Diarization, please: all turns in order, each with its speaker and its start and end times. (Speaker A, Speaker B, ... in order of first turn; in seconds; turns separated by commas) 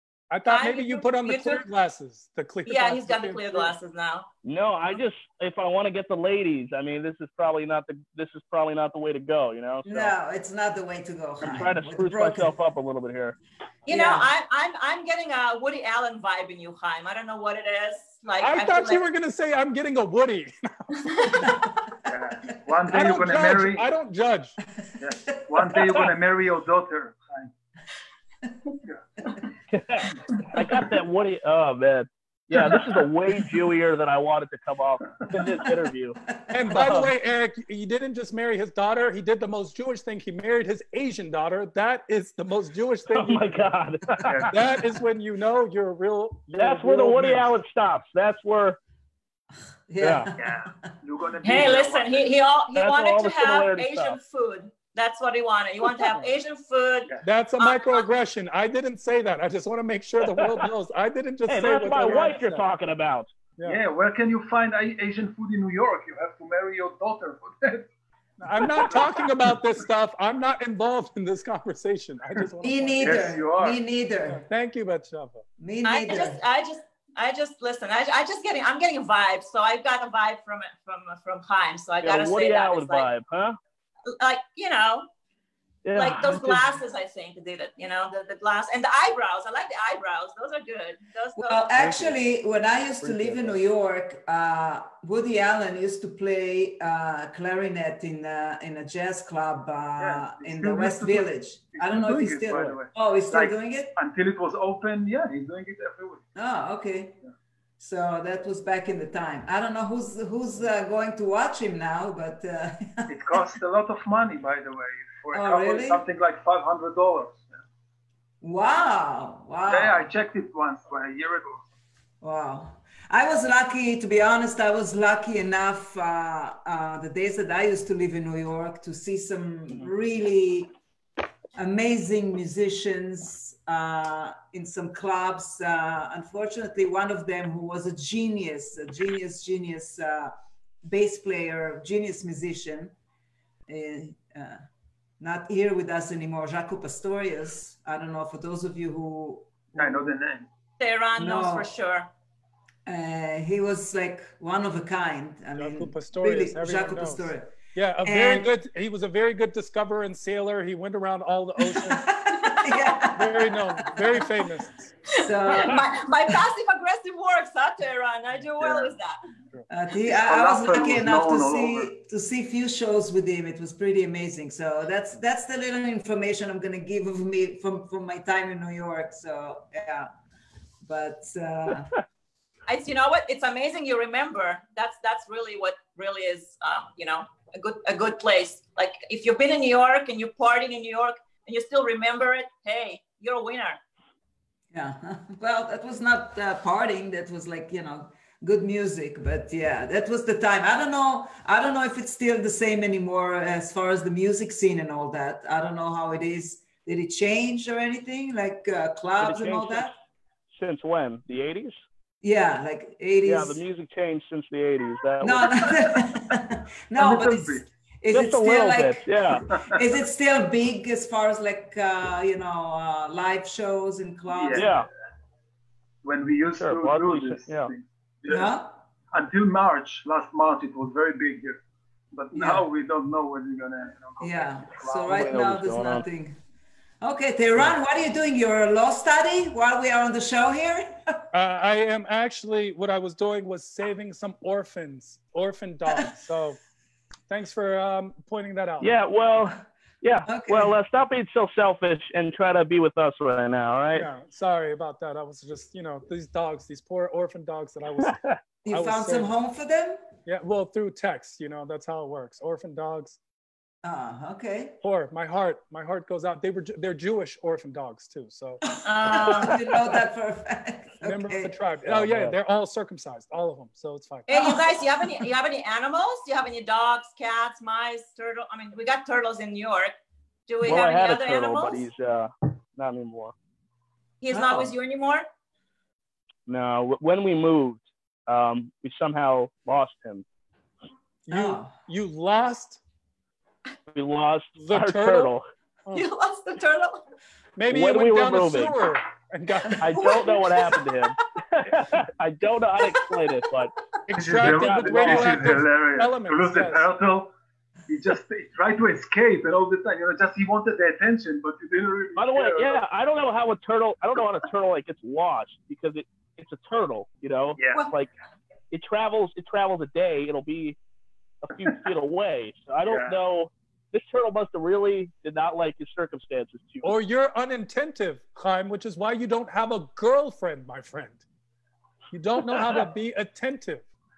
Speaker A: 0.3-3.7, Speaker B: 0.5-1.6, Speaker B: 2.6-4.3, Speaker C: 4.4-10.1, Speaker D: 9.8-12.5, Speaker C: 11.4-13.4, Speaker B: 13.8-19.0, Speaker D: 13.9-14.3, Speaker A: 18.4-21.6, Speaker B: 21.1-21.4, Speaker E: 22.0-23.9, Speaker A: 22.9-24.6, Speaker E: 25.0-27.5, Speaker C: 29.7-36.2, Speaker D: 36.3-36.7, Speaker A: 36.5-43.7, Speaker C: 36.7-37.1, Speaker C: 43.1-44.5, Speaker E: 44.2-44.7, Speaker A: 44.5-47.5, Speaker C: 46.5-48.8, Speaker D: 49.9-50.7, Speaker C: 50.0-50.3, Speaker E: 50.4-52.2, Speaker B: 51.4-58.0, Speaker C: 52.7-54.2, Speaker A: 57.2-62.6, Speaker C: 60.2-60.7, Speaker C: 61.5-63.3, Speaker E: 63.6-67.9, Speaker A: 68.4-73.4, Speaker E: 68.6-69.6, Speaker D: 72.6-74.4, Speaker E: 73.0-73.8, Speaker A: 74.3-75.4, Speaker D: 75.6-76.4, Speaker B: 75.8-83.1, Speaker C: 82.0-83.6, Speaker B: 84.2-85.0, Speaker C: 85.8-86.7, Speaker B: 85.9-91.6, Speaker D: 91.3-103.9, Speaker C: 91.8-92.2, Speaker C: 93.0-93.5, Speaker E: 100.0-106.2, Speaker C: 102.5-102.8, Speaker D: 106.3-107.2, Speaker D: 107.8-113.4, Speaker E: 113.1-117.6, Speaker D: 115.3-116.0, Speaker D: 118.4-120.1, Speaker E: 119.7-121.6, Speaker D: 122.2-130.7, Speaker D: 131.5-142.9, Speaker D: 143.7-144.6, Speaker D: 145.2-150.1, Speaker E: 149.8-150.5, Speaker B: 150.8-152.1, Speaker D: 151.2-151.7, Speaker D: 152.8-158.5, Speaker A: 155.6-162.1, Speaker D: 161.8-164.2, Speaker A: 163.1-164.9, Speaker D: 165.1-165.8, Speaker B: 165.2-169.2, Speaker E: 168.6-168.9, Speaker D: 169.7-180.1, Speaker E: 170.1-171.9, Speaker D: 180.8-181.9, Speaker B: 182.7-193.8, Speaker D: 194.7-209.9, Speaker C: 209.2-209.9, Speaker C: 210.5-211.7, Speaker D: 212.2-213.6, Speaker C: 213.2-215.8, Speaker D: 215.2-224.7, Speaker E: 217.0-217.7, Speaker C: 218.1-219.5, Speaker E: 219.5-219.8, Speaker E: 224.3-224.8, Speaker C: 224.5-224.9, Speaker E: 226.0-228.5, Speaker C: 226.6-227.7, Speaker D: 228.3-228.8, Speaker E: 229.1-235.2, Speaker D: 232.3-232.7, Speaker D: 234.2-236.4, Speaker C: 235.0-236.0, Speaker D: 237.0-241.2, Speaker A: 241.3-246.6, Speaker A: 247.3-248.9, Speaker C: 248.8-254.1, Speaker D: 250.3-250.7, Speaker A: 253.9-258.2, Speaker C: 258.0-258.4, Speaker D: 258.6-260.0, Speaker A: 258.7-259.3, Speaker A: 260.2-263.2, Speaker D: 263.8-264.8, Speaker A: 264.8-268.6, Speaker B: 268.8-269.6, Speaker D: 269.0-271.5, Speaker A: 271.0-274.4, Speaker C: 271.9-272.3, Speaker B: 274.3-279.9, Speaker D: 274.3-274.6, Speaker B: 280.5-281.9, Speaker C: 280.6-283.3, Speaker B: 284.2-285.2, Speaker D: 284.3-284.7, Speaker C: 286.5-290.2, Speaker A: 291.2-292.8, Speaker D: 291.3-291.8, Speaker C: 293.9-295.4, Speaker A: 294.6-295.3, Speaker B: 295.9-297.0, Speaker A: 297.6-300.2, Speaker C: 297.7-298.9, Speaker C: 299.8-303.7, Speaker A: 304.1-306.9, Speaker E: 304.1-307.3, Speaker C: 304.4-305.6, Speaker E: 307.9-312.8, Speaker C: 312.1-318.1, Speaker E: 317.6-317.8, Speaker C: 318.7-320.8, Speaker C: 321.4-326.9, Speaker E: 322.8-323.1, Speaker A: 326.8-331.2, Speaker A: 332.1-333.8, Speaker C: 332.5-332.8